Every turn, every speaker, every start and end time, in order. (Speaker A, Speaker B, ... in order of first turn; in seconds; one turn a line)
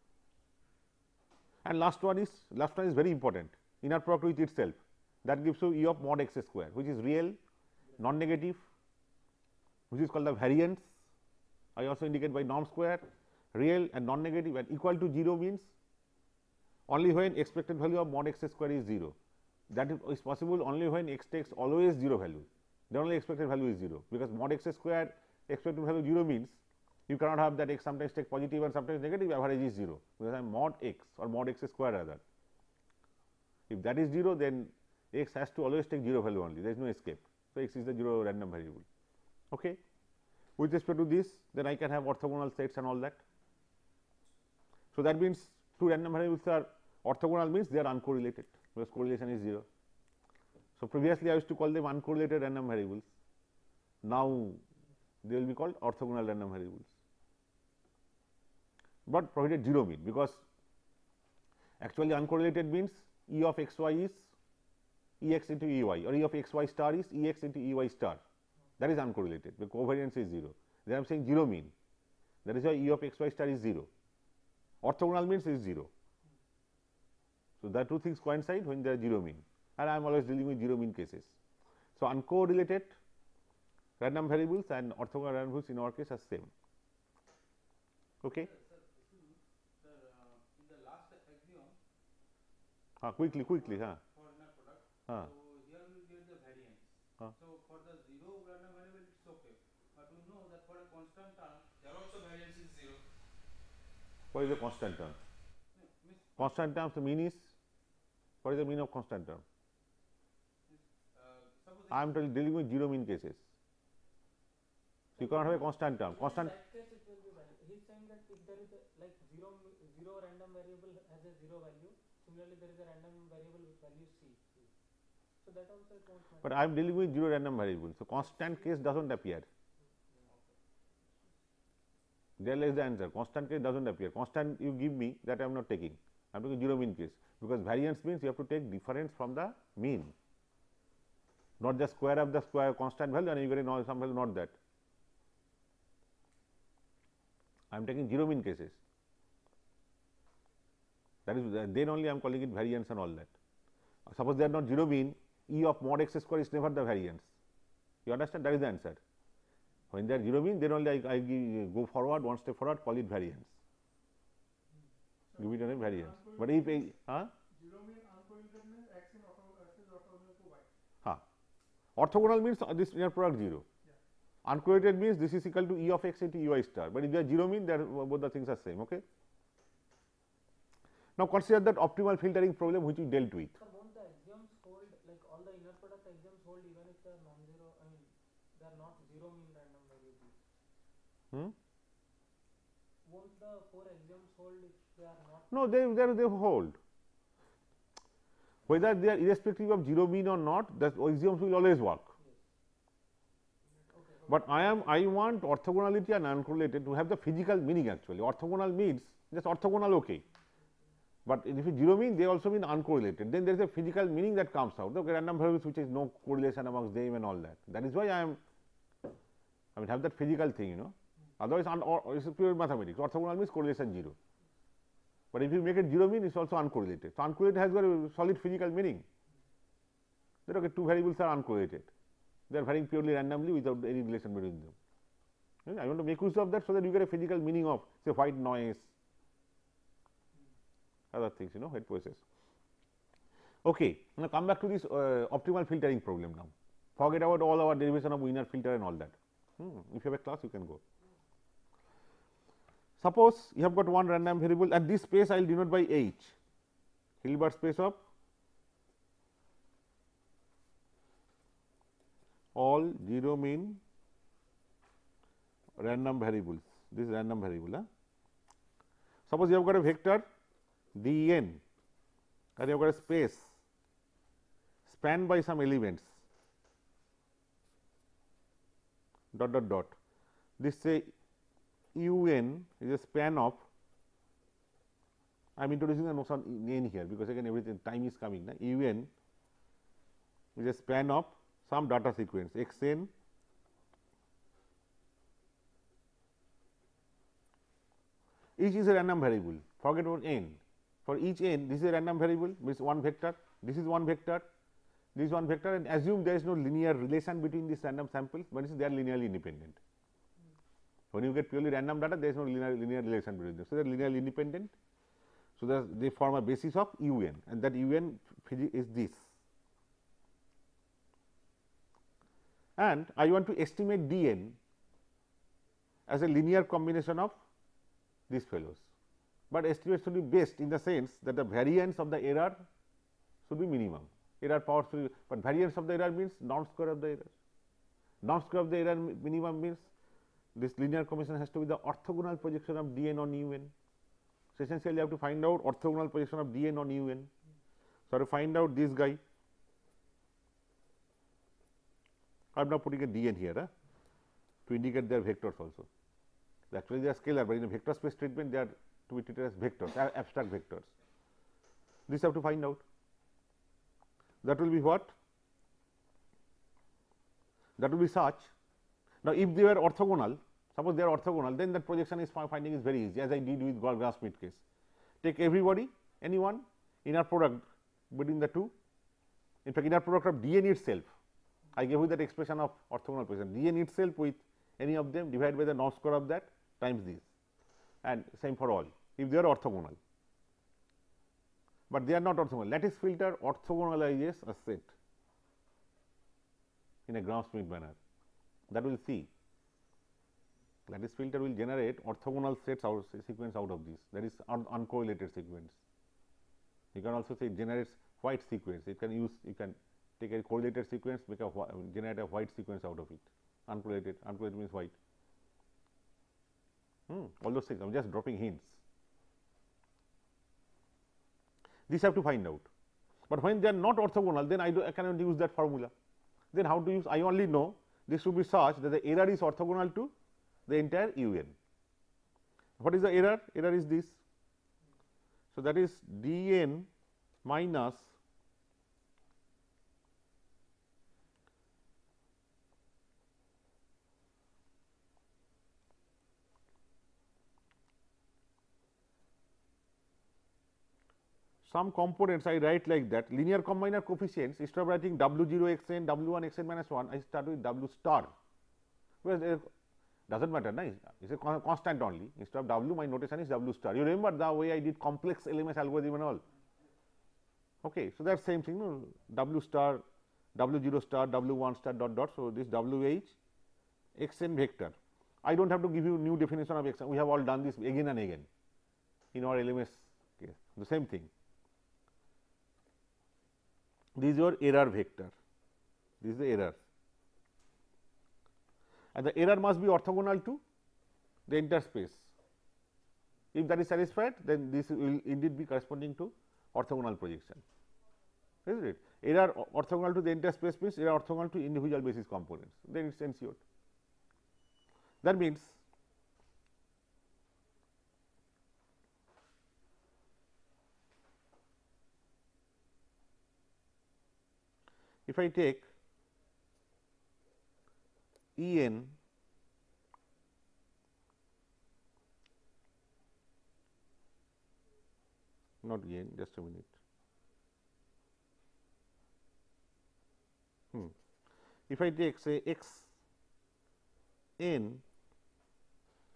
Speaker A: 1.6-7.4
Speaker A: 8.0-8.6
Speaker A: 9.9-10.9
Speaker A: 11.8-15.7
Speaker A: 16.9-19.2
Speaker A: 19.7-32.2
Speaker A: 33.7-38.9
Speaker A: 39.5-39.8
Speaker A: 40.6-43.2
Speaker A: 44.9-49.7
Speaker A: 50.8-53.1
Speaker A: 54.0-54.6
Speaker A: 55.2-56.9
Speaker A: 59.1-60.4
Speaker A: 61.8-64.3
Speaker A: 65.2-68.2
Speaker A: 68.8-71.7
Speaker A: 72.5-73.9
Speaker A: 74.8-75.9
Speaker A: 77.6-81.4
Speaker A: 82.0-83.0
Speaker A: 84.0-86.5
Speaker A: 88.2-88.5
Speaker B: 88.3-91.8
Speaker A: 93.0-94.0
Speaker B: 93.2-103.0
Speaker A: 104.3-105.2
Speaker B: 105.7-106.5
Speaker A: 106.4-107.5
Speaker A: 108.4-109.4
Speaker B: 110.7-112.2
Speaker A: 111.9-113.4
Speaker A: 115.2-116.5
Speaker C: 115.2-124.7
Speaker C: 125.4-126.8
Speaker A: 126.4-129.5
Speaker C: 128.4-128.8
Speaker B: 130.2-130.5
Speaker A: 132.4-140.2
Speaker A: 141.6-144.6
Speaker A: 147.7-148.8
Speaker A: 151.3-153.3
Speaker A: 154.1-157.3
Speaker A: 158.1-159.0
Speaker A: 159.9-163.5
Speaker D: 165.3-166.9
Speaker A: 165.4-167.3
Speaker D: 167.5-170.7
Speaker A: 172.0-173.7
Speaker A: 174.4-179.0
Speaker A: 181.2-183.6
Speaker C: 183.6-190.4
Speaker C: 193.1-195.5
Speaker A: 195.5-196.8
Speaker A: 198.7-202.1
Speaker C: 203.9-204.9
Speaker A: 204.3-210.2
Speaker A: 211.2-218.4
Speaker A: 219.8-224.2
Speaker A: 225.3-229.1
Speaker A: 230.5-231.9
Speaker A: 232.5-234.8
Speaker A: 235.7-238.9
Speaker A: 241.1-242.2
Speaker A: 243.7-250.8
Speaker A: 253.0-256.4
Speaker A: 257.2-258.0
Speaker A: 262.6-263.8
Speaker A: 265.8-267.9
Speaker A: 269.3-270.2
Speaker A: 270.9-271.6
Speaker A: 272.6-273.6
Speaker A: 274.9-276.2
Speaker A: 279.3-280.0
Speaker A: 280.6-281.1
Speaker A: 281.9-283.7
Speaker A: 285.6-289.1
Speaker A: 290.6-293.1
Speaker A: 298.6-304.5
Speaker A: 305.1-309.8
Speaker A: 311.1-314.7
Speaker A: 315.6-319.3
Speaker A: 322.8-324.6
Speaker A: 326.1-327.4
Speaker A: 328.3-328.9
Speaker A: 329.5-332.7
Speaker A: 333.5-337.3
Speaker A: 338.2-339.9
Speaker A: 340.6-343.7
Speaker A: 344.6-347.3
Speaker A: 348.1-349.2
Speaker A: 352.5-353.7
Speaker A: 354.7-355.9
Speaker A: 356.7-360.9
Speaker A: 362.1-362.8
Speaker A: 364.4-365.1
Speaker A: 367.8-368.5
Speaker A: 369.2-374.6
Speaker A: 375.2-378.7
Speaker A: 379.6-381.1
Speaker A: 381.7-387.3
Speaker A: 388.0-390.0
Speaker A: 391.9-394.9
Speaker A: 397.1-398.0
Speaker A: 398.7-399.3
Speaker A: 400.9-405.8
Speaker A: 406.9-414.9
Speaker A: 417.1-418.8
Speaker A: 421.9-422.7
Speaker A: 423.3-425.9
Speaker A: 426.5-430.1
Speaker A: 430.7-431.6
Speaker A: 432.8-434.2
Speaker A: 435.5-436.9
Speaker A: 437.4-438.1
Speaker A: 451.6-458.3
Speaker A: 459.2-459.7
Speaker A: 460.3-466.4
Speaker A: 467.8-470.0
Speaker A: 470.6-473.4
Speaker A: 474.2-478.5
Speaker A: 479.3-481.3
Speaker A: 484.2-485.3
Speaker A: 486.2-486.8
Speaker A: 489.1-490.6
Speaker A: 491.5-492.3
Speaker A: 493.5-497.6
Speaker A: 498.7-503.6
Speaker A: 505.2-505.8
Speaker A: 515.3-515.9
Speaker A: 518.6-519.2
Speaker A: 525.8-526.9
Speaker A: 531.9-533.1
Speaker A: 534.6-535.0